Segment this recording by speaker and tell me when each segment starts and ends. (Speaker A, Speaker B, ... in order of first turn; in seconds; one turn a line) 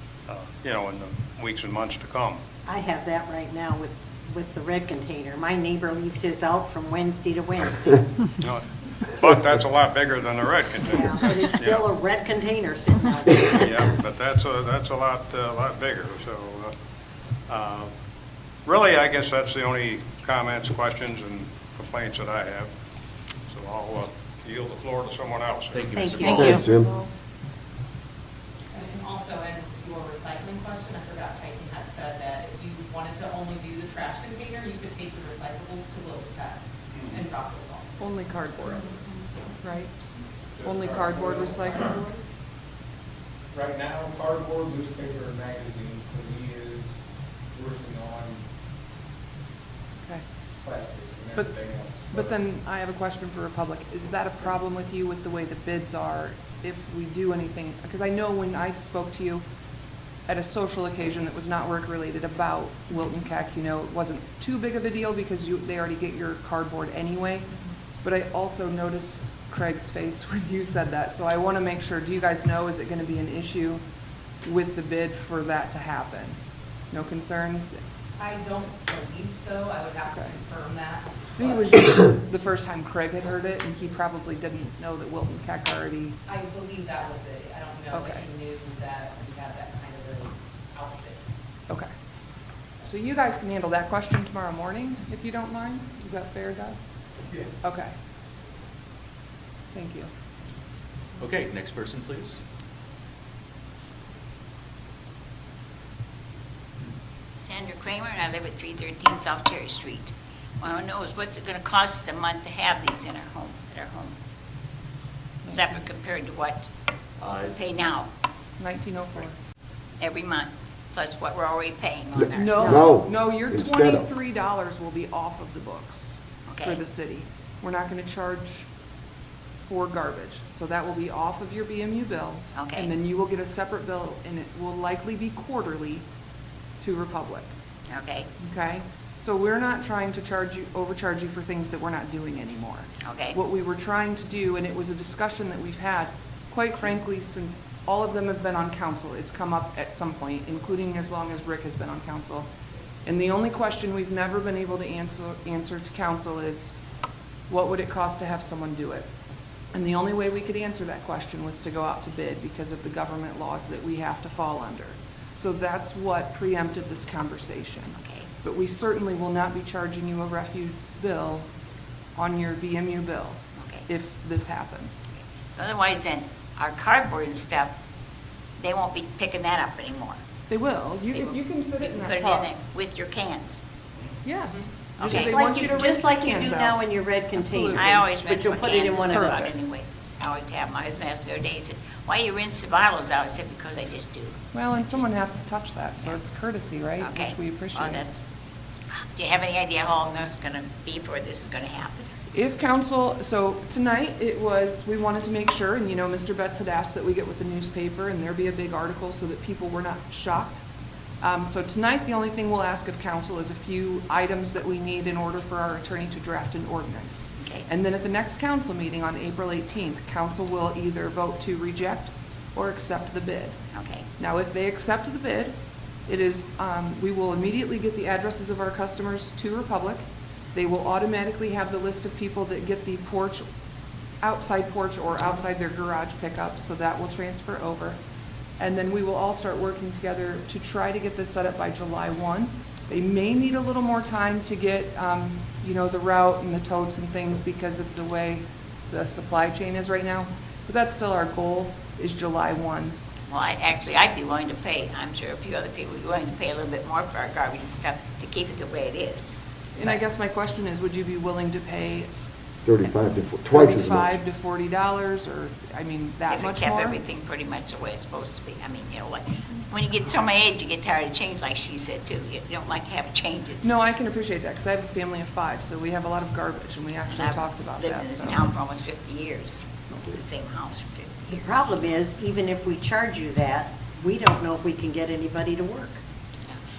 Speaker A: 0.3-2.4
Speaker B: 2.6-8.2
Speaker A: 8.4-11.8
Speaker B: 10.8-13.9
Speaker A: 13.6-16.7
Speaker A: 17.5-17.9
Speaker A: 18.6-22.7
Speaker A: 23.5-25.9
Speaker C: 25.7-26.6
Speaker B: 25.9-27.1
Speaker D: 26.2-26.6
Speaker E: 26.2-26.9
Speaker F: 28.7-37.9
Speaker G: 38.0-39.0
Speaker G: 39.6-39.9
Speaker H: 40.6-41.8
Speaker G: 40.6-42.1
Speaker H: 43.5-46.8
Speaker A: 43.5-45.8
Speaker H: 47.5-48.4
Speaker H: 50.6-51.5
Speaker G: 51.3-59.4
Speaker H: 52.0-52.3
Speaker G: 60.3-67.5
Speaker G: 68.0-73.8
Speaker G: 74.4-76.4
Speaker G: 76.9-77.8
Speaker F: 78.2-81.8
Speaker G: 80.1-80.4
Speaker G: 81.4-86.2
Speaker F: 86.2-91.3
Speaker G: 87.9-88.2
Speaker G: 92.8-96.8
Speaker G: 97.6-97.9
Speaker G: 99.7-100.1
Speaker C: 101.2-102.4
Speaker D: 107.4-114.1
Speaker G: 115.4-115.8
Speaker D: 115.5-116.7
Speaker C: 117.2-117.6
Speaker D: 117.4-118.1
Speaker G: 118.6-119.3
Speaker D: 120.0-122.9
Speaker E: 122.1-124.1
Speaker G: 122.3-126.1
Speaker D: 126.5-126.8
Speaker G: 126.6-128.7
Speaker G: 129.6-136.0
Speaker D: 132.5-132.9
Speaker G: 136.8-137.5
Speaker D: 137.9-138.3
Speaker G: 138.4-152.5
Speaker D: 143.0-143.4
Speaker G: 153.0-156.7
Speaker G: 157.5-159.1
Speaker G: 159.7-171.5
Speaker D: 168.0-168.3
Speaker G: 172.2-175.0
Speaker D: 173.6-173.9
Speaker D: 175.5-177.8
Speaker D: 178.6-180.2
Speaker G: 180.5-182.5
Speaker D: 181.1-183.6
Speaker G: 184.2-186.8
Speaker D: 185.0-185.3
Speaker B: 185.0-189.4
Speaker G: 187.3-188.1
Speaker D: 187.7-195.3
Speaker G: 189.0-189.6
Speaker G: 194.5-198.1
Speaker D: 197.0-198.2
Speaker D: 198.9-202.1
Speaker G: 202.3-210.6
Speaker G: 211.2-223.6
Speaker D: 217.4-217.7
Speaker D: 223.7-224.1
Speaker G: 224.2-225.5
Speaker G: 226.1-233.4
Speaker G: 234.2-238.0
Speaker G: 238.6-253.0
Speaker D: 253.3-259.9
Speaker G: 259.7-262.1
Speaker E: 262.6-264.2
Speaker G: 263.4-267.0
Speaker D: 266.3-273.7
Speaker G: 273.6-278.5
Speaker D: 277.1-281.6
Speaker B: 281.3-286.0